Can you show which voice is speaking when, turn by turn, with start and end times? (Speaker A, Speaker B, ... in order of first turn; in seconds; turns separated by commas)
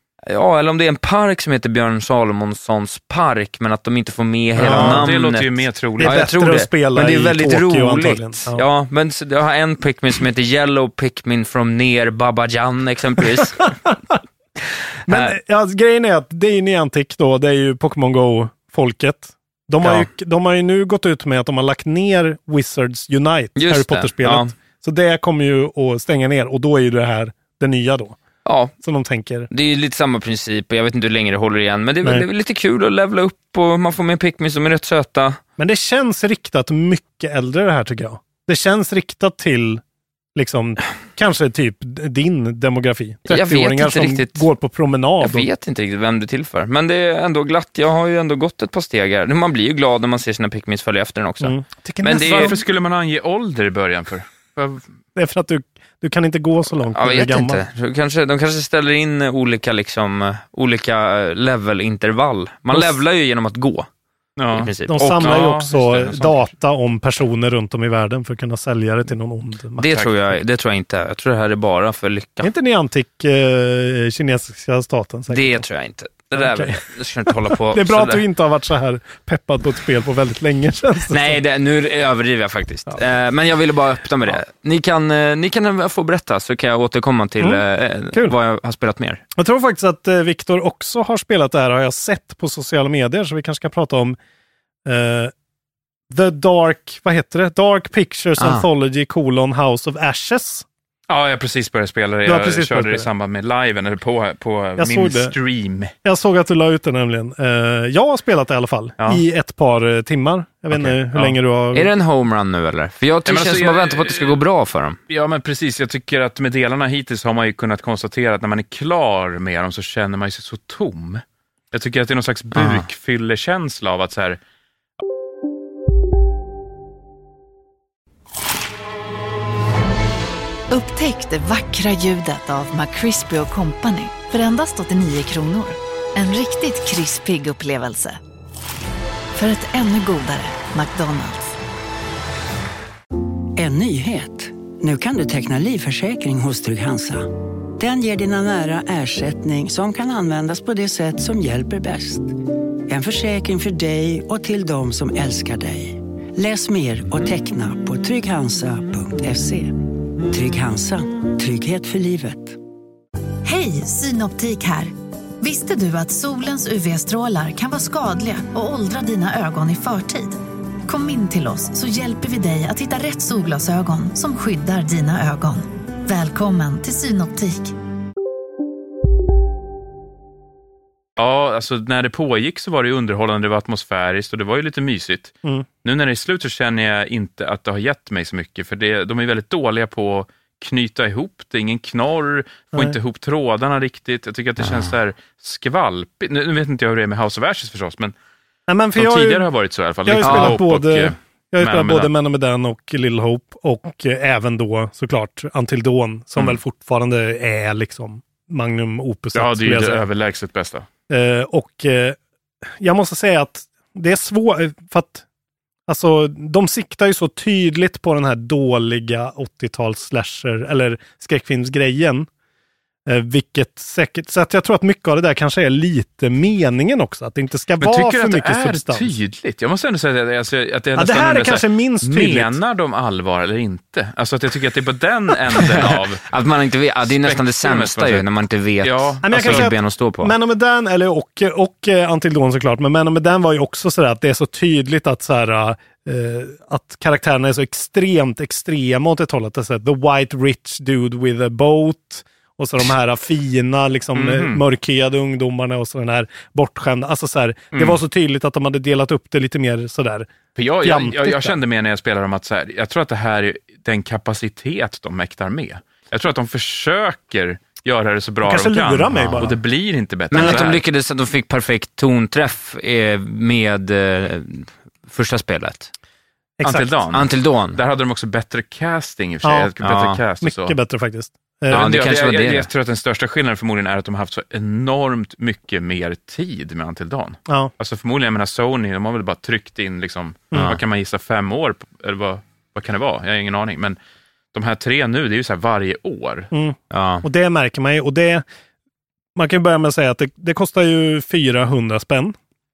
Speaker A: 0.3-13.7, Speaker B: 4.6-5.1, Speaker C: 4.6-6.3, Speaker B: 6.0-8.6, Speaker B: 15.1-28.2, Speaker A: 19.8-20.1, Speaker A: 23.6-24.5, Speaker A: 28.4-28.7, Speaker B: 28.8-29.5, Speaker A: 29.5-35.4, Speaker B: 35.6-39.8, Speaker B: 40.4-45.5, Speaker A: 43.3-44.5, Speaker A: 45.2-52.6, Speaker B: 51.4-52.6, Speaker C: 52.1-54.8, Speaker B: 55.2-57.6, Speaker A: 57.0-63.9, Speaker B: 62.7-63.0, Speaker C: 64.4-66.5, Speaker A: 64.5-65.3, Speaker B: 64.9-70.3, Speaker A: 69.8-72.5, Speaker B: 72.4-75.7, Speaker A: 75.3-78.2, Speaker B: 76.3-76.8, Speaker B: 77.6-81.4, Speaker A: 81.1-89.2, Speaker B: 87.4-88.3, Speaker B: 89.4-94.2, Speaker B: 94.9-95.3, Speaker B: 96.1-100.7, Speaker A: 98.4-98.7, Speaker C: 101.1-105.9, Speaker B: 102.2-103.1, Speaker B: 104.8-105.3, Speaker B: 106.0-111.9, Speaker C: 110.8-111.3, Speaker A: 111.7-115.0, Speaker C: 113.3-114.4, Speaker C: 115.1-124.4, Speaker A: 122.5-122.9, Speaker D: 130.7-138.2, Speaker D: 139.3-141.6, Speaker E: 143.6-152.4, Speaker E: 152.9-162.6, Speaker D: 163.4-177.7, Speaker C: 181.2-198.1, Speaker A: 194.6-194.9, Speaker B: 198.7-199.5, Speaker C: 199.0-202.1, Speaker B: 200.1-210.1, Speaker A: 200.2-200.6, Speaker C: 209.3-210.9, Speaker B: 211.1-212.2, Speaker B: 212.8-215.2, Speaker B: 215.9-222.3, Speaker B: 223.1-229.1, Speaker C: 227.8-236.3, Speaker B: 230.9-232.6, Speaker A: 236.2-240.3, Speaker C: 237.0-238.3, Speaker C: 238.8-239.7, Speaker B: 239.2-261.6, Speaker C: 254.2-254.6, Speaker C: 257.7-258.0, Speaker C: 260.6-270.8, Speaker B: 268.4-269.6, Speaker A: 269.1-269.5, Speaker A: 270.3-275.9, Speaker B: 270.4-270.6, Speaker B: 276.6-277.0, Speaker C: 276.6-280.8, Speaker A: 277.1-277.8, Speaker B: 279.4-279.7, Speaker A: 279.8-280.2, Speaker B: 280.4-281.9, Speaker A: 281.7-282.7, Speaker C: 281.7-294.0, Speaker A: 290.5-290.8, Speaker C: 294.5-296.5, Speaker B: 296.5-298.4, Speaker A: 296.9-297.2, Speaker B: 299.4-302.4